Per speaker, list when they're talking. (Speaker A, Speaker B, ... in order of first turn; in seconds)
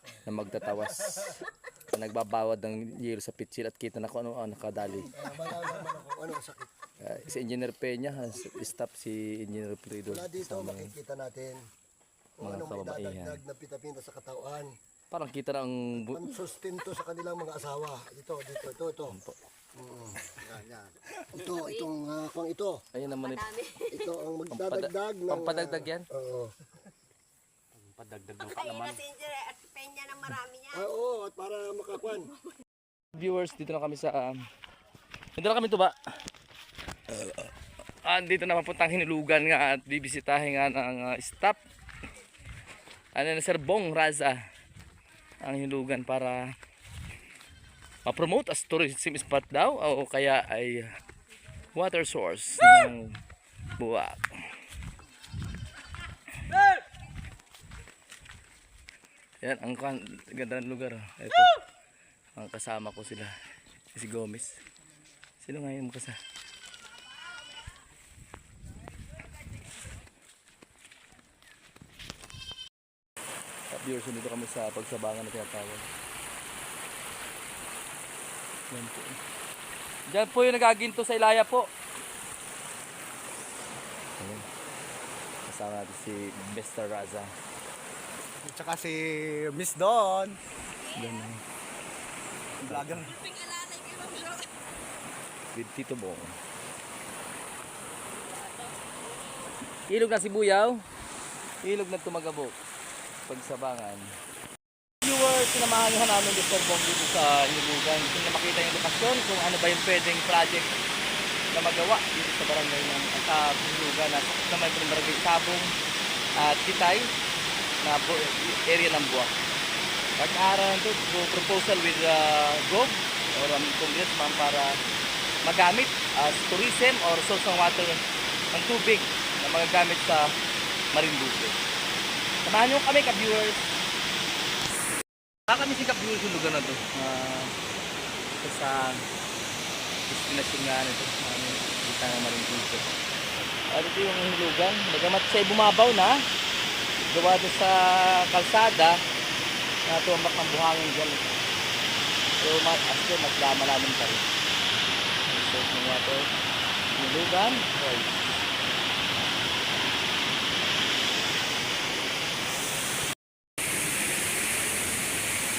Speaker A: 0.2-5.2, 7.0-10.9, 12.4-13.4, 15.1-16.2, 19.1-19.4, 22.9-23.6, 24.5-26.1, 27.8-29.0, 33.1-34.5, 35.4-35.9, 37.1-37.5, 38.0-41.6, 43.1-44.4, 45.4-46.5, 48.0-50.9, 51.7-53.2, 53.8-54.3, 59.4-61.5, 62.4-63.3, 63.9-64.5, 65.4-66.2, 73.7-75.8, 78.7-79.2, 80.1-81.7, 84.2-84.4, 85.5-87.3, 90.9-91.4, 92.6-93.1, 95.5-96.3, 99.9-100.8, 101.6-102.5, 103.3-104.1, 105.0-110.7, 111.5-115.7, 116.4-117.1, 117.8-119.3, 120.2-124.8, 125.4-128.0, 128.5-130.3, 130.9-131.6, 132.4-133.6, 135.5-137.5, 138.4-139.0, 140.1-142.8, 143.7-146.2, 147.0-149.0, 149.8-151.2, 152.4-154.2, 155.3-156.3, 156.9-158.2
Speaker B: 5.2-6.7, 10.1-11.6, 12.4-14.7, 16.0-19.2, 19.7-22.8, 23.9-26.5, 30.7-32.3
Speaker C: 23.5-23.9, 28.8-30.8, 93.2-94.4
Speaker D: 88.4-90.4, 92.6-93.2